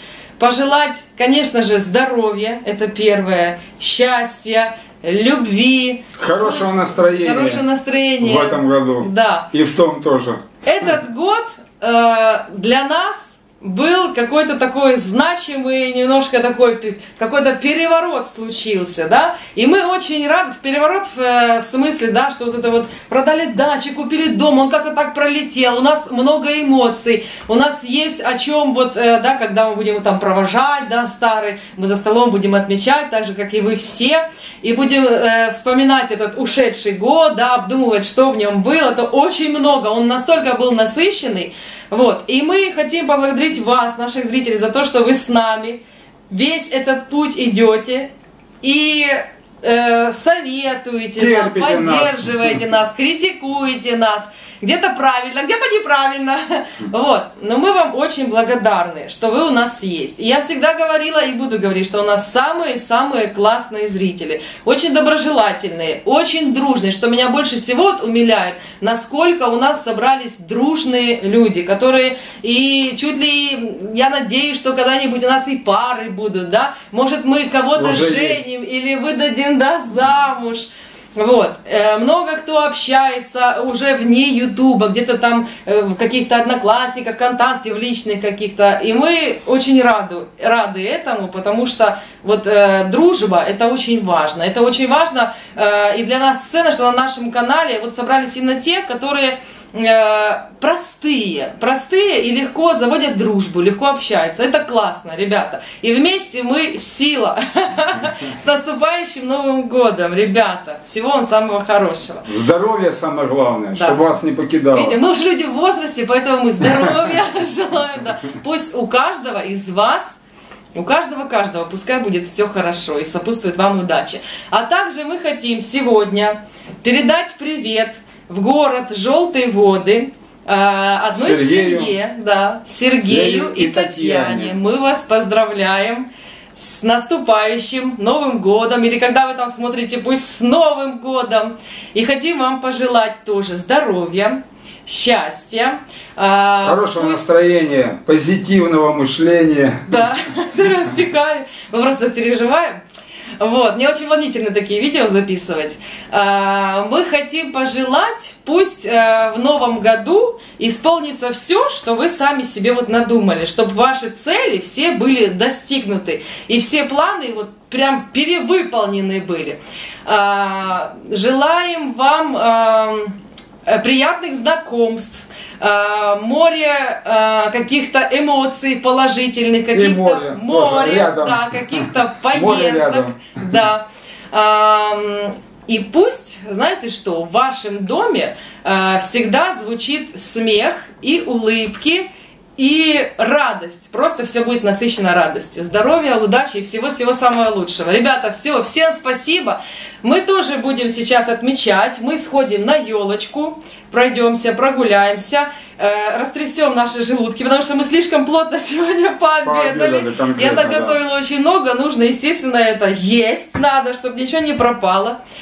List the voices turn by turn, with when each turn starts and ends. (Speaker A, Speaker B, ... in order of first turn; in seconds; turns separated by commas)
Speaker A: 0.4-9.5, Speaker B: 6.2-7.6, Speaker B: 8.2-10.4, Speaker A: 10.6-48.1, Speaker A: 48.6-112.2, Speaker B: 51.2-52.6, Speaker B: 77.7-78.4, Speaker B: 112.2-115.0, Speaker A: 113.7-114.0, Speaker A: 114.7-120.2, Speaker B: 116.6-116.9, Speaker A: 120.7-147.4, Speaker B: 131.2-131.9, Speaker B: 133.0-134.6, Speaker B: 146.6-150.1, Speaker A: 149.9-152.8, Speaker A: 153.4-215.2, Speaker B: 179.7-183.2, Speaker B: 209.4-211.0